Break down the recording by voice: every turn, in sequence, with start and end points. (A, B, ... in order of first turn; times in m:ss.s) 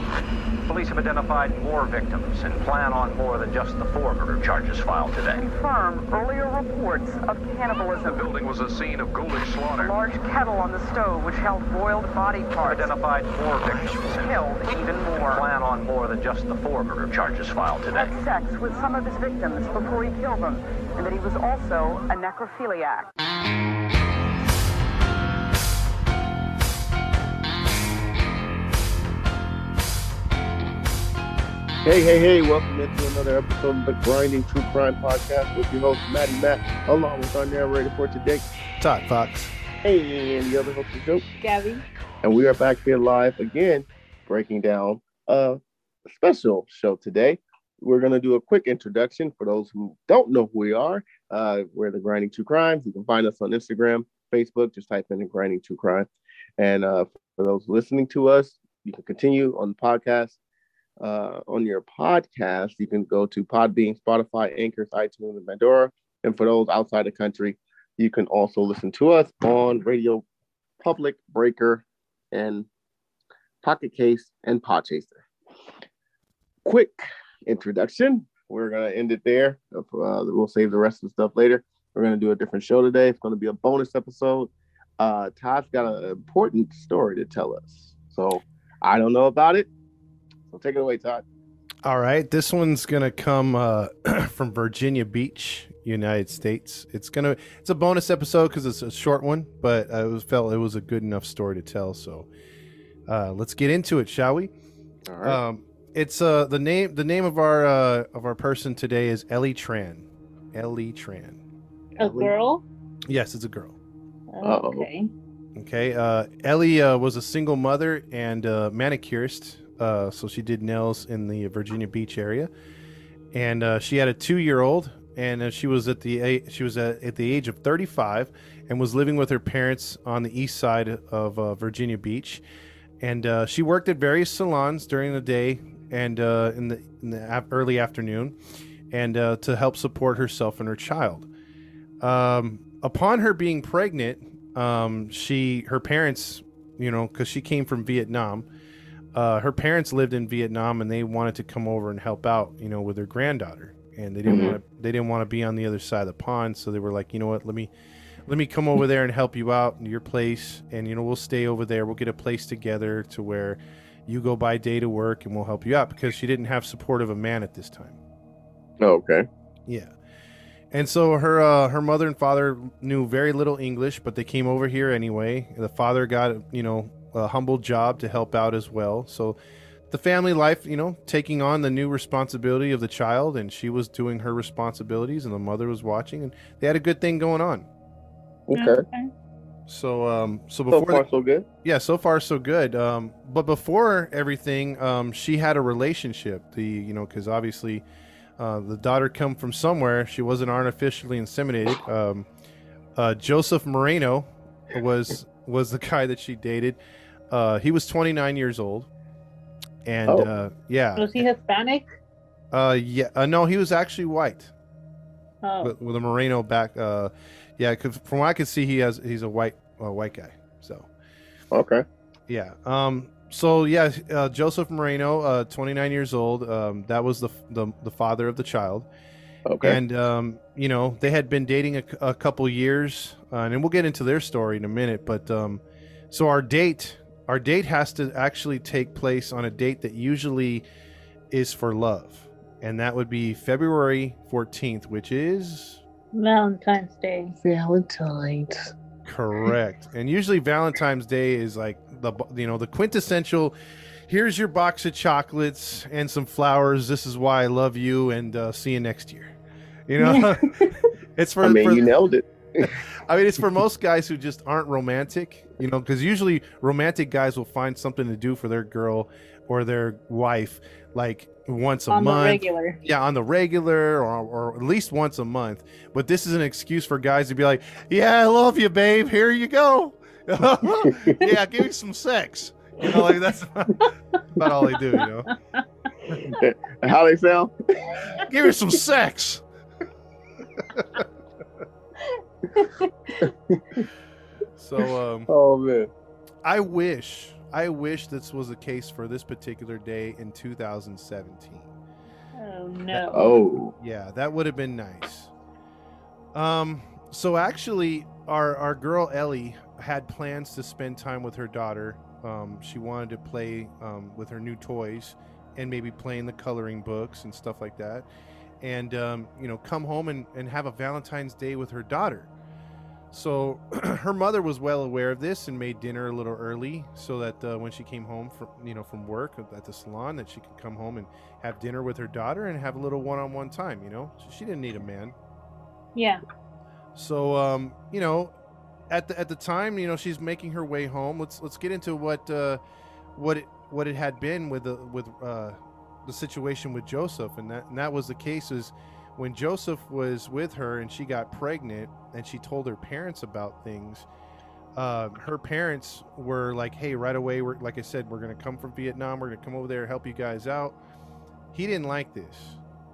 0:00.7-0:05.5 A
0:05.3-0:08.3 B
0:08.0-0:10.0 A
0:09.8-0:13.0 B
0:12.5-0:18.1 A
0:14.1-0:15.4 B
0:17.9-0:23.1 B
0:31.8-0:38.4 C
0:38.8-0:39.5 D
0:39.8-0:41.2 C
0:41.4-0:41.8 E
0:42.2-1:00.4 C
1:01.0-1:10.2 C
1:10.8-1:12.7 C
1:13.6-1:15.2 C
1:16.6-1:29.7 C
1:30.5-1:31.2 C
1:31.8-1:42.3 D
1:43.1-1:44.5 D
1:45.1-1:45.4 C
1:45.2-1:51.4 D
1:51.9-1:52.3 C
1:52.0-1:52.6 E
1:53.1-1:53.8 D
1:54.3-1:55.1 E
1:54.4-1:54.9 C
1:55.6-2:02.5 D
2:03.3-2:12.4 D
2:13.0-2:18.3 D
2:18.9-2:21.3 D
2:22.0-2:28.4 D
2:29.1-2:37.7 D
2:34.2-2:34.6 C
2:34.3-2:34.6 E
2:38.2-2:48.0 D
2:48.8-2:49.3 C
2:49.7-2:49.9 D
2:50.7-2:59.4 D
2:59.9-3:07.7 D
3:08.5-3:08.8 C
3:08.5-3:09.1 E
3:09.7-3:11.1 D
3:10.7-3:11.5 C
3:11.6-3:17.8 D
3:18.4-3:22.3 D
3:23.0-3:26.8 D
3:27.3-3:28.9 D
3:29.8-3:31.2 D
3:31.0-3:31.8 E
3:32.5-3:34.5 D
3:35.4-3:35.8 E
3:35.6-3:40.9 D
3:41.5-3:41.8 C
3:42.3-3:48.9 D
3:49.4-3:49.8 C
3:49.6-4:00.6 D
4:01.3-4:05.8 D
4:06.1-4:07.4 E
4:07.4-4:08.7 C
4:09.0-4:13.5 D
4:14.1-4:19.4 D
4:19.9-4:21.9 D
4:20.0-4:20.7 E
4:21.4-4:22.7 C
4:22.6-4:45.3 D
4:31.9-4:32.8 E
4:40.8-4:41.2 C
4:46.3-4:48.2 C
4:48.2-4:49.4 D
4:50.7-4:51.0 D
4:52.6-4:52.9 E
4:53.2-4:53.9 C
4:54.6-4:55.3 D
4:55.3-4:55.9 C
4:56.4-5:01.7 D
5:02.4-5:03.3 E
5:03.1-5:03.7 C
5:03.8-5:05.3 D
5:06.3-5:18.1 D
5:18.6-5:22.3 D
5:23.1-5:35.2 D
5:36.0-5:36.2 E
5:37.0-5:38.3 D
5:38.9-5:42.6 D
5:43.2-5:54.1 D
5:54.8-6:00.8 D
6:01.5-6:02.6 D